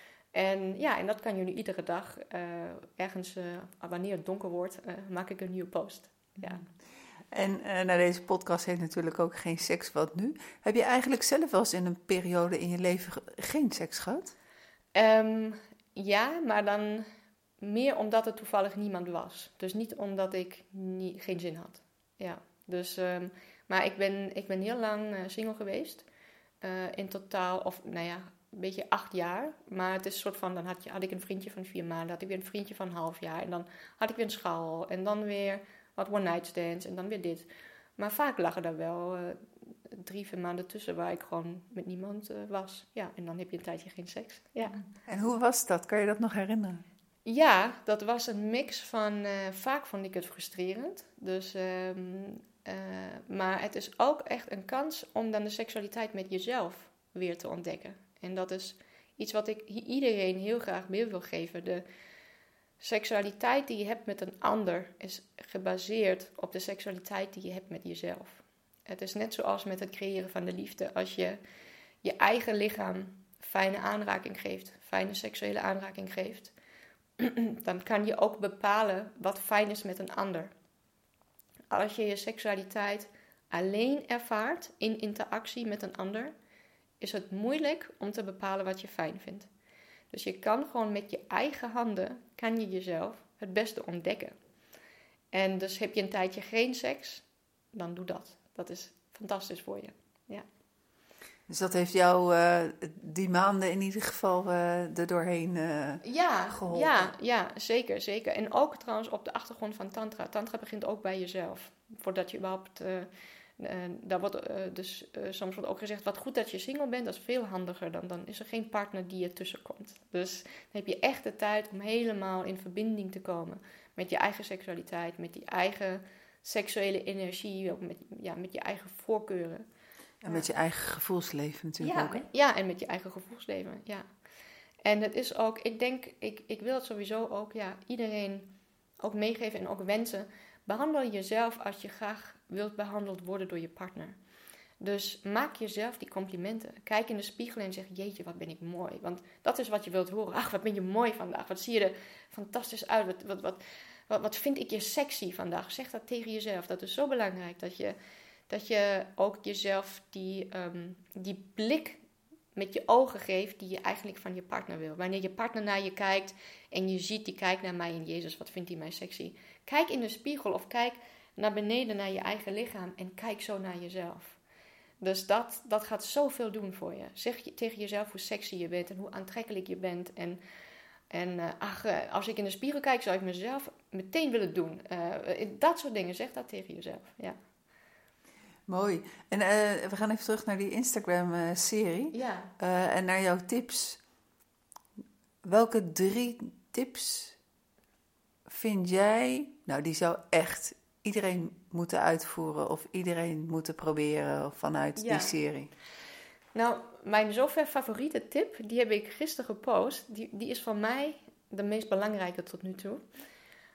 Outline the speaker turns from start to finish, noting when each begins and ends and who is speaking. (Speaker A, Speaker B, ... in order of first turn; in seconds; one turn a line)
Speaker A: 0.3-6.6
Speaker B: 6.4-6.6
Speaker B: 7.3-14.3
Speaker A: 14.9-17.1
Speaker A: 17.6-26.1
Speaker A: 26.6-37.5
Speaker A: 38.0-44.8
Speaker B: 45.0-46.8
Speaker A: 47.2-61.8
Speaker A: 62.8-71.4
Speaker A: 72.0-76.5
Speaker A: 77.2-80.5
Speaker A: 81.7-86.3
Speaker A: 87.0-89.5
Speaker A: 90.1-94.3
Speaker A: 95.3-100.5
Speaker B: 101.5-107.1
Speaker A: 106.0-113.1
Speaker A: 113.6-129.7
Speaker B: 130.2-132.3
Speaker A: 131.8-134.1
Speaker A: 134.8-144.2
Speaker A: 144.8-158.0
Speaker A: 158.5-162.0
Speaker A: 162.6-174.4
Speaker A: 175.0-180.4
Speaker A: 181.1-187.4
Speaker B: 188.7-194.0
Speaker A: 192.1-192.5
Speaker B: 195.4-197.4
Speaker B: 198.5-205.7
Speaker A: 205.0-205.3
Speaker A: 206.6-213.0